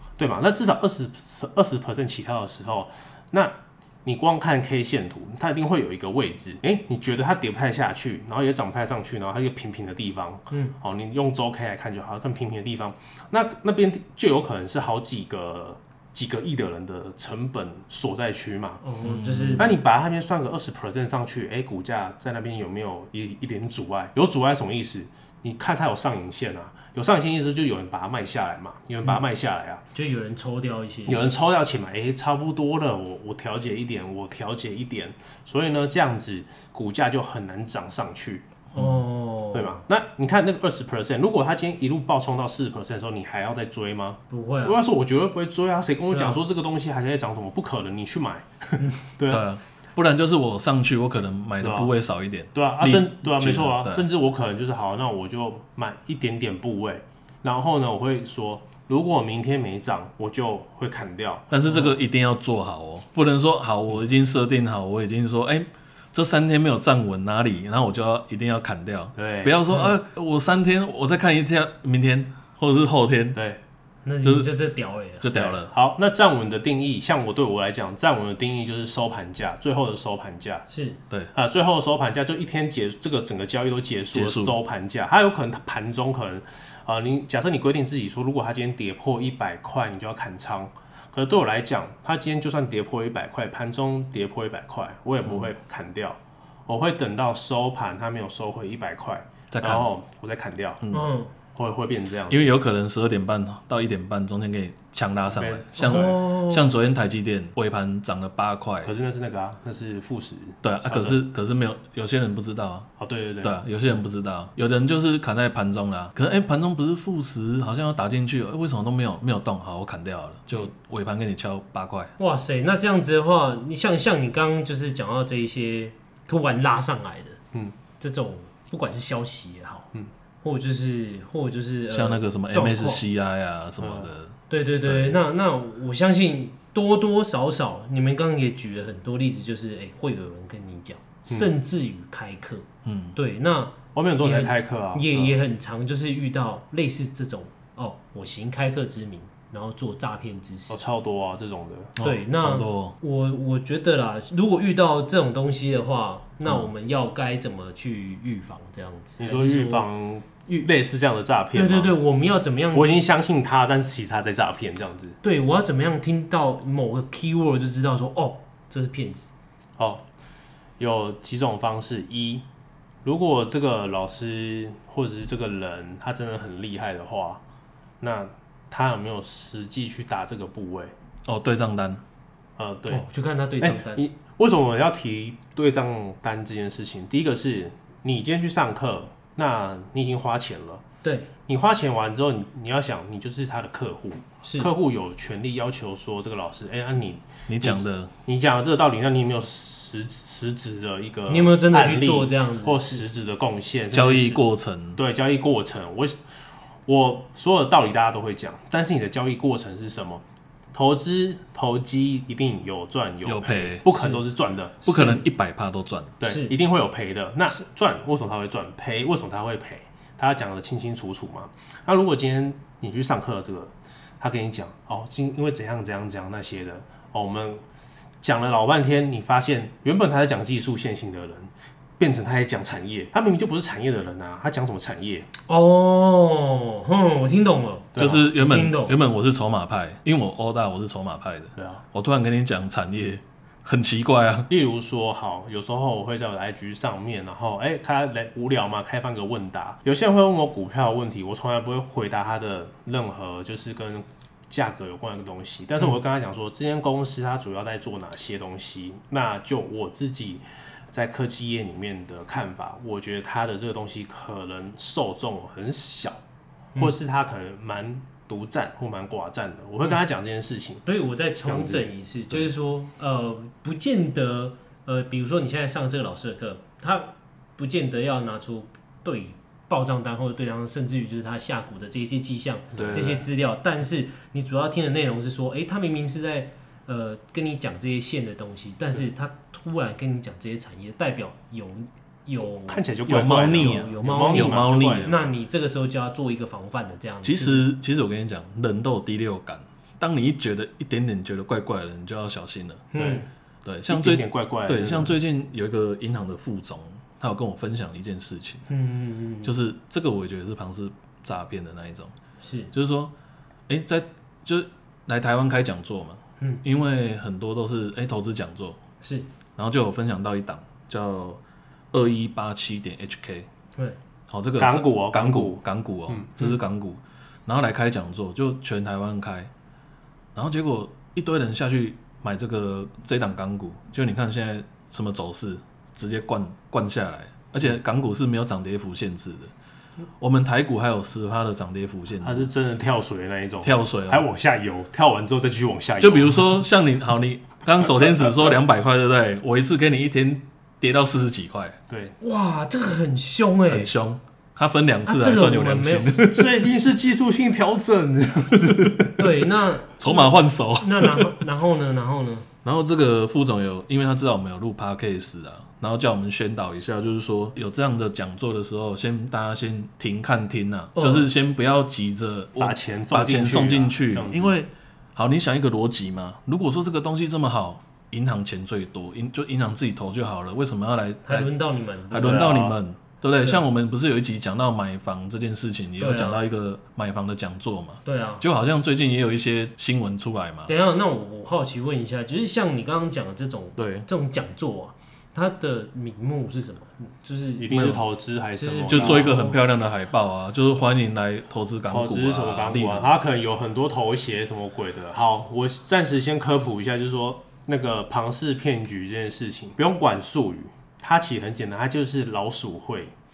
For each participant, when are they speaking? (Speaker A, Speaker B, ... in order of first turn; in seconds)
Speaker A: 0.2-18.8, 19.6-29.8, 31.1-38.5, 39.5-49.4, 51.6-51.9, 52.5-61.5, 69.2-69.5, 73.3-73.6, 75.3-80.6, 81.3-100.8, 101.5-102.5, 105.3-106.2, 108.8-111.2, 113.0-113.6, 133.8-134.1, 143.9-145.4, 150.7-151.9, 159.2-161.9, 162.7-165.2, 169.8-170.1, 170.8-172.4, 173.0-177.4, 178.0-180.9, 182.6-183.0, 183.6-190.8, 191.5-204.4, 204.9-206.2, 206.8-210.2, 210.7-214.9, 216.2-227.6, 228.2-235.3, 237.9-238.3, 241.6-241.8, 244.5-266.2, 266.7-270.9, 271.4-272.5, 282.8-283.2, 292.7-295.3, 302.9-303.3, 303.9-305.1, 324.6-326.5, 342.2-346.4, 347.8-348.5, 351.9-352.1, 356.3-359.4, 372.6-374.6, 382.2-382.8, 397.6-399.4, 401.9-413.1
Speaker B: 10.5-10.8, 18.8-19.7, 29.9-31.3, 38.7-39.8, 44.3-44.8, 46.1-46.4, 69.7-69.9, 74.0-75.3, 80.7-81.0, 100.9-101.3, 105.8-106.7, 122.2-127.4, 128.0-129.9, 130.4-133.0, 134.5-150.8, 152.0-159.8, 161.5-163.0, 165.2-169.3, 182.9-184.0, 191.0-191.3, 194.4-194.7, 201.3-203.0, 213.9-214.2, 214.8-215.2, 216.2-216.5, 235.5-239.0, 270.9-297.6, 302.9-303.3, 308.7-309.6, 312.4-312.7, 319.0-319.3, 352.2-353.9, 355.1-356.2, 359.2-362.5, 370.9-371.3, 381.2-382.5, 386.0-386.4, 388.1-388.4, 390.7-397.8, 398.6-399.6
Speaker C: 19.0-19.7, 49.3-54.0, 61.5-73.4, 74.2-74.5, 75.2-75.7, 84.1-84.5, 99.5-99.9, 102.3-108.9, 110.6-112.9, 113.4-122.1, 131.9-135.2, 142.8-143.2, 152.0-152.9, 156.4-156.7, 181.3-182.0, 197.5-198.1, 203.9-205.0, 213.2-213.9, 214.8-216.1, 238.0-244.5, 282.8-283.1, 293.1-295.1, 297.2-302.9, 303.6-308.6, 309.4-312.1, 312.7-313.1, 313.7-318.8, 319.6-321.4, 321.9-323.5, 324.3-329.5, 330.3-339.5, 340.2-342.5, 343.6-344.2, 346.0-351.8, 353.7-356.5, 360.0-361.4, 362.6-381.5, 382.1-390.7, 393.8-394.1, 397.7-398.0, 398.8-403.1